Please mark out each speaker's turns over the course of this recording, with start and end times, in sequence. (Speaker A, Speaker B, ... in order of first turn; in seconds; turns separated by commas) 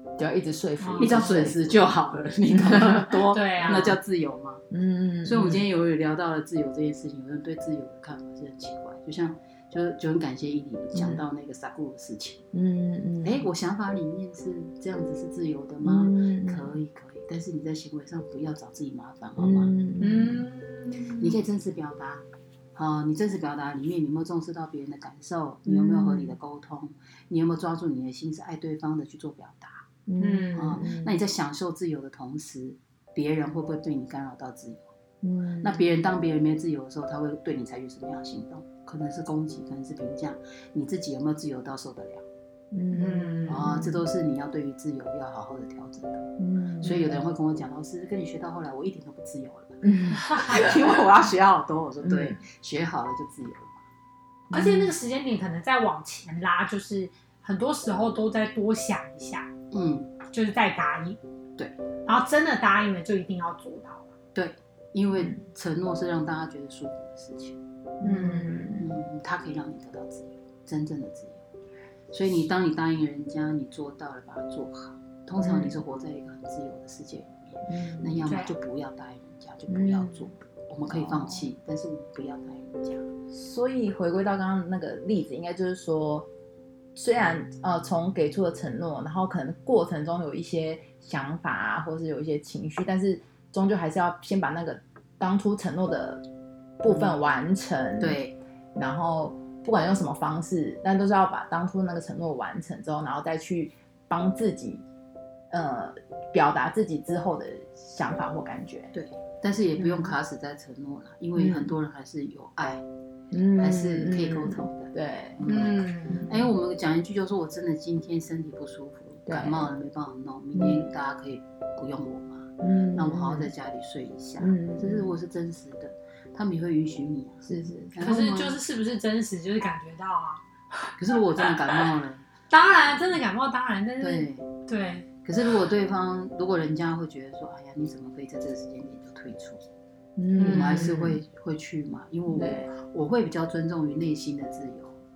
Speaker A: 0.2-1.7, Speaker B: 0.8-1.4, Speaker C: 1.0-4.6, Speaker A: 2.5-3.2, Speaker B: 3.3-4.0, Speaker A: 4.7-5.7, Speaker C: 5.2-12.4, Speaker A: 10.9-11.2, Speaker A: 12.5-13.5, Speaker C: 13.2-19.7, Speaker A: 15.8-16.8, Speaker A: 19.4-20.4, Speaker B: 20.0-21.4, Speaker C: 21.2-29.9, Speaker A: 25.7-26.4, Speaker A: 30.1-31.2, Speaker B: 30.2-30.8, Speaker C: 30.6-35.0, Speaker A: 35.2-35.8, Speaker C: 35.6-42.3, Speaker A: 42.7-44.0, Speaker B: 42.9-43.7, Speaker C: 43.5-53.8, Speaker A: 46.4-47.3, Speaker A: 49.8-51.0, Speaker B: 50.2-50.7, Speaker A: 52.0-52.4, Speaker A: 54.5-55.0, Speaker B: 54.5-59.5, Speaker C: 59.7-60.1, Speaker B: 60.3-61.2, Speaker B: 62.1-64.1, Speaker C: 64.3-67.6, Speaker A: 68.0-68.9, Speaker B: 68.0-68.7, Speaker C: 68.8-71.5, Speaker C: 72.1-83.0, Speaker A: 75.4-75.7, Speaker A: 77.7-78.3, Speaker B: 78.2-78.5, Speaker A: 79.7-80.3, Speaker A: 80.9-81.5, Speaker A: 83.3-86.3, Speaker A: 87.0-96.2, Speaker A: 96.8-98.2, Speaker C: 96.9-97.2, Speaker C: 98.0-98.4, Speaker A: 98.8-104.8, Speaker A: 105.5-108.9, Speaker C: 108.9-112.8, Speaker A: 109.8-110.1, Speaker A: 111.3-111.7, Speaker A: 113.3-115.5, Speaker C: 113.6-128.6, Speaker B: 115.5-116.2, Speaker A: 116.1-116.5, Speaker A: 119.3-119.7, Speaker A: 120.5-120.8, Speaker A: 122.6-123.5, Speaker A: 124.4-125.2, Speaker A: 127.4-128.0, Speaker B: 128.0-130.4, Speaker C: 131.0-132.2, Speaker B: 132.5-135.1, Speaker C: 134.0-134.5, Speaker C: 135.2-139.6, Speaker A: 140.2-141.2, Speaker B: 140.4-140.9, Speaker C: 140.4-145.0, Speaker A: 142.3-142.7